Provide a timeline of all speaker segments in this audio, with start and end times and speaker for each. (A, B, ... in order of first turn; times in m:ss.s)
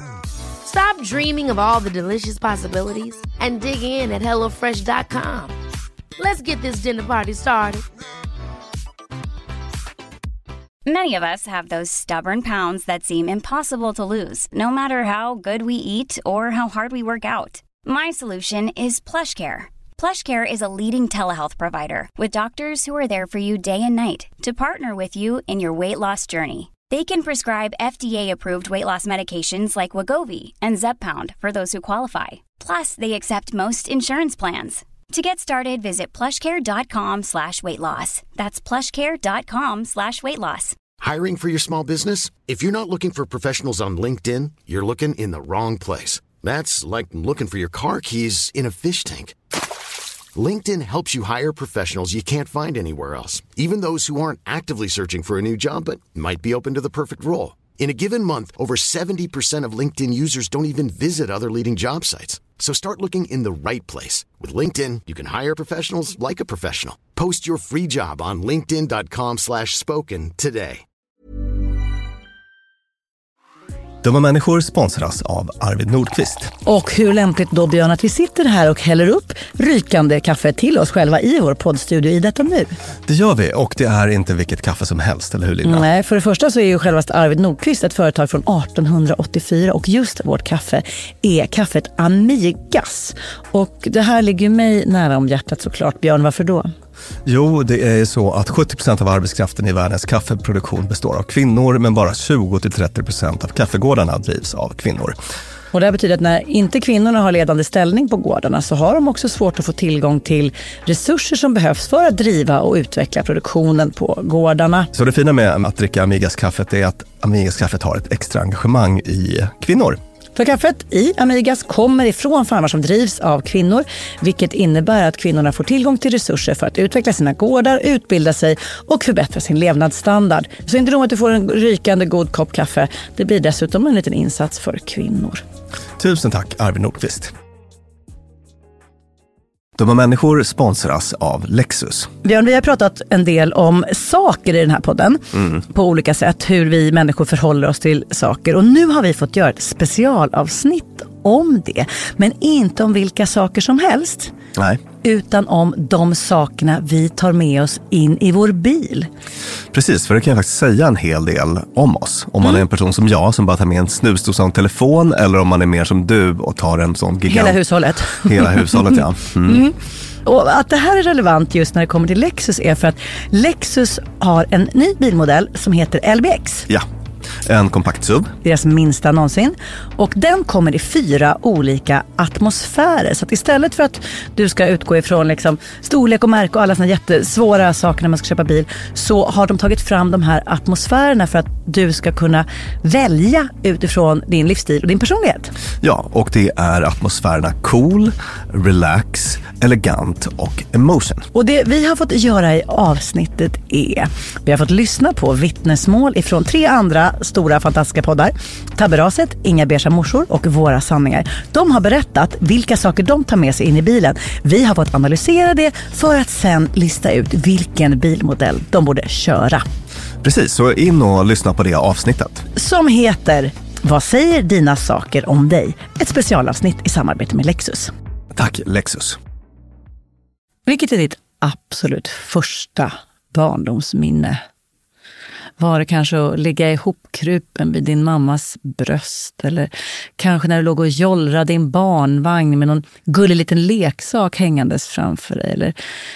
0:00.6-0:05.6 A
0:06.2-0:07.8 A
0:10.8-0:40.7 B
0:41.0-0:49.3 C
0:50.3-1:10.8 C
1:14.0-1:16.5 D
1:16.6-1:22.8 E
1:23.0-1:25.8 D
1:25.6-1:36.7 E
1:37.2-1:45.2 D
1:45.7-1:54.9 E
1:54.9-2:00.0 D
2:00.4-2:15.4 E
2:16.0-2:17.3 D
2:19.8-2:22.1 D
2:22.2-2:34.3 E
2:25.3-2:25.6 D
2:34.5-2:34.8 D
2:35.0-2:39.1 E
2:39.7-2:47.6 D
2:47.3-2:56.7 E
2:48.2-2:49.6 D
2:57.4-2:58.3 D
2:58.4-3:15.5 E
3:15.8-3:21.3 D
3:21.3-3:39.6 E
3:40.2-3:42.5 D
3:42.6-3:47.9 E
3:48.3-3:49.2 D
3:50.7-3:54.4 E
3:55.6-4:05.7 E